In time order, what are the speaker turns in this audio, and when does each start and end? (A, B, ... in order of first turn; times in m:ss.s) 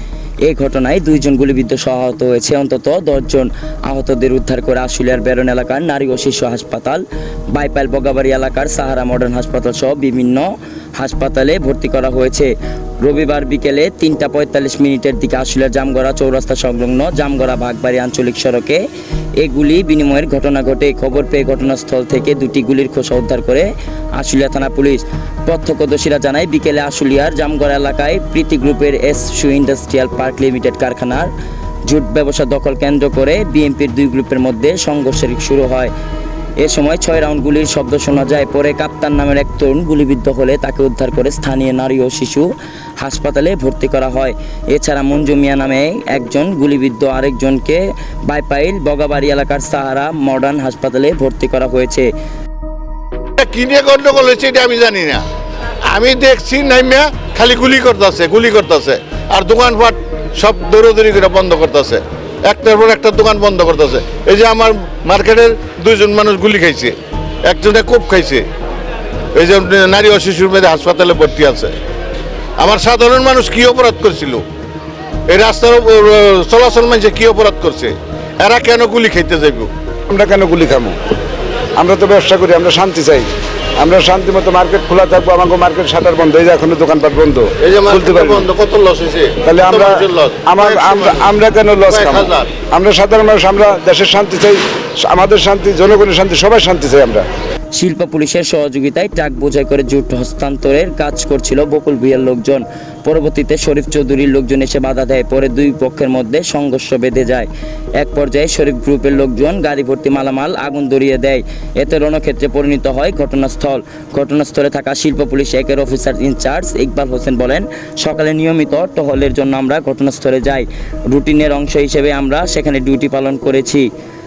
0:00.4-0:18.8 A
0:19.4-0:31.3 A
0:31.8-0:35.9 A
0:36.6-0:52.1 A
0:53.4-0:55.2 B
0:55.9-1:08.5 B
1:09.3-1:11.8 B
1:12.6-1:14.4 B
1:15.3-1:19.7 B
1:20.1-1:21.0 C
1:21.8-1:28.5 C
1:27.6-1:31.3 B
1:29.4-1:37.2 C
1:31.9-1:32.5 B
1:37.7-2:03.9 A